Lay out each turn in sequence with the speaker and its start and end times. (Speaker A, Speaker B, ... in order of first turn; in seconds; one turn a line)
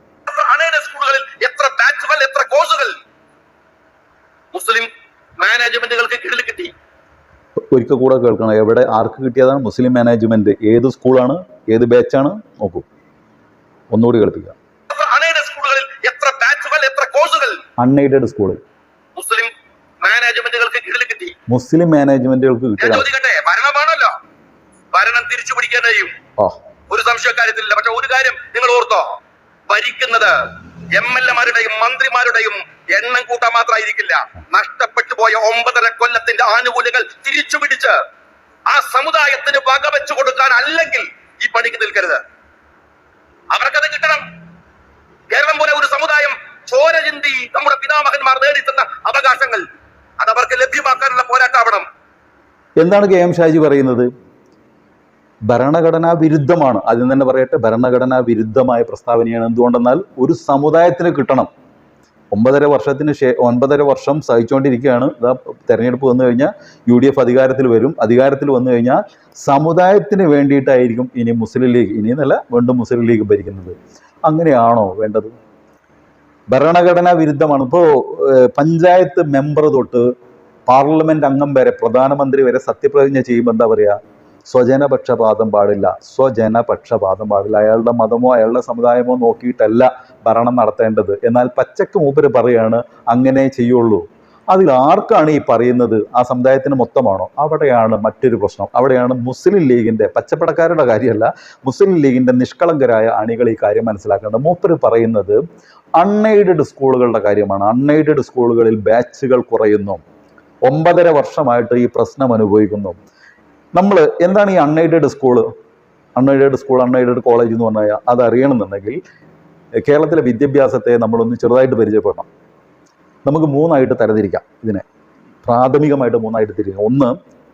Speaker A: 0.3-3.0
Speaker A: 4.5-6.7
Speaker B: 7.7-12.8
Speaker B: 13.9-14.6
Speaker A: 14.9-17.6
Speaker B: 17.8-18.6
Speaker A: 19.2-21.4
Speaker B: 21.5-23.1
Speaker A: 22.8-24.1
Speaker A: 24.9-26.1
Speaker A: 26.9-29.2
Speaker A: 29.7-30.4
Speaker A: 30.9-38.0
Speaker A: 38.7-42.2
Speaker A: 43.5-44.2
Speaker A: 45.3-49.6
Speaker A: 50.2-51.9
Speaker B: 52.8-54.1
Speaker B: 55.5-61.5
Speaker B: 62.3-75.3
Speaker B: 76.5-80.0
Speaker B: 80.7-105.4
Speaker B: 106.0-110.0
Speaker B: 110.7-113.0
Speaker B: 113.7-115.5
Speaker B: 116.2-119.0
Speaker B: 119.8-122.3
Speaker B: 123.3-124.8
Speaker B: 125.4-127.2